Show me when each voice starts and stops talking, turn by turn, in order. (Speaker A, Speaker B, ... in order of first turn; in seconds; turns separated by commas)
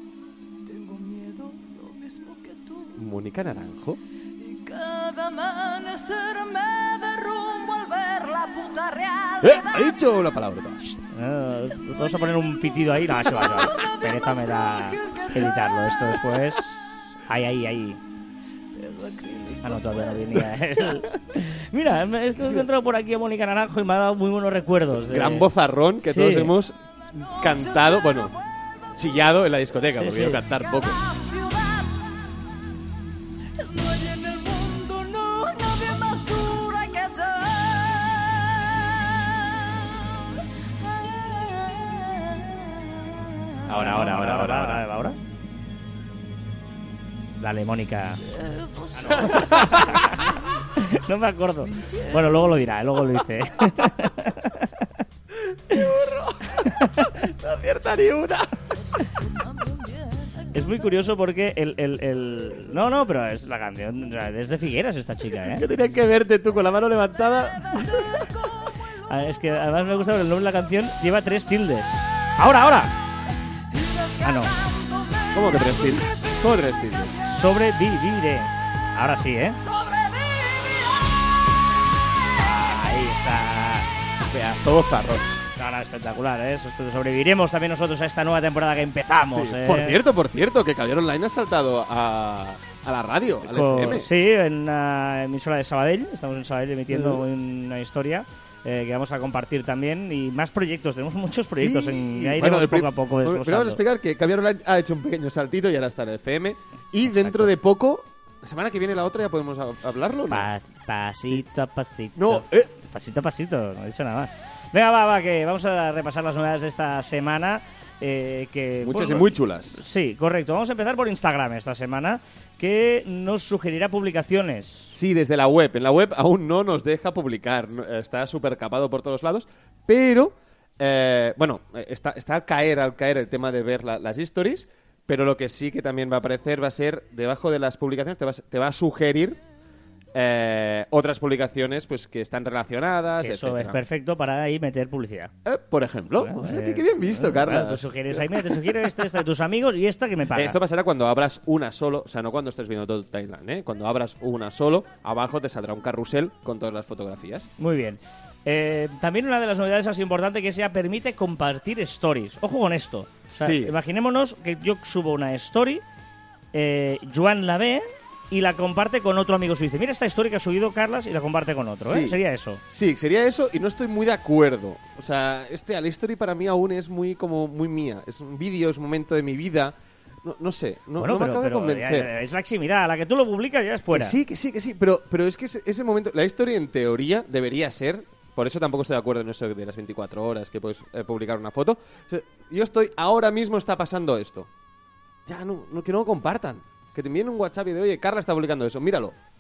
Speaker A: 0.7-3.0, Speaker B: 3.0-4.0, Speaker A: 4.4-9.9, Speaker B: 9.4-10.8, Speaker C: 11.0-18.0, Speaker A: 13.2-16.2, Speaker A: 18.7-20.5, Speaker C: 19.6-25.5, Speaker B: 25.1-28.4, Speaker C: 26.0-26.5, Speaker A: 27.4-28.2, Speaker B: 28.9-31.0, Speaker C: 29.9-30.4, Speaker A: 30.8-32.1, Speaker A: 33.5-40.0, Speaker A: 40.8-43.6, Speaker B: 43.7-44.9, Speaker C: 43.7-45.2, Speaker C: 47.4-48.2, Speaker A: 48.2-50.3, Speaker C: 49.0-54.9, Speaker B: 49.2-50.1, Speaker A: 51.7-52.7, Speaker B: 55.7-58.7, Speaker C: 56.6-57.1, Speaker A: 58.8-60.7, Speaker C: 60.5-65.7, Speaker B: 65.5-68.2, Speaker A: 67.8-68.5, Speaker C: 69.1-73.0, Speaker A: 73.9-76.3, Speaker C: 74.2-74.5, Speaker B: 75.3-77.2, Speaker C: 77.2-79.6, Speaker A: 79.8-80.8, Speaker C: 82.4-83.9, Speaker B: 84.3-85.4, Speaker C: 85.5-90.0, Speaker B: 89.3-94.1, Speaker C: 93.4-103.8, Speaker B: 96.9-97.2, Speaker B: 101.6-110.5, Speaker C: 107.1-107.5, Speaker C: 110.3-125.0, Speaker B: 112.2-112.7, Speaker B: 118.8-119.8, Speaker B: 124.9-139.4, Speaker B: 140.1-143.8, Speaker C: 143.2-145.3, Speaker B: 145.4-149.0, Speaker C: 146.2-150.6, Speaker B: 150.3-157.5, Speaker C: 157.6-165.8, Speaker B: 163.3-163.7, Speaker C: 166.5-172.6, Speaker B: 171.8-182.1, Speaker C: 181.0-184.2, Speaker B: 183.9-194.5, Speaker B: 195.3-199.2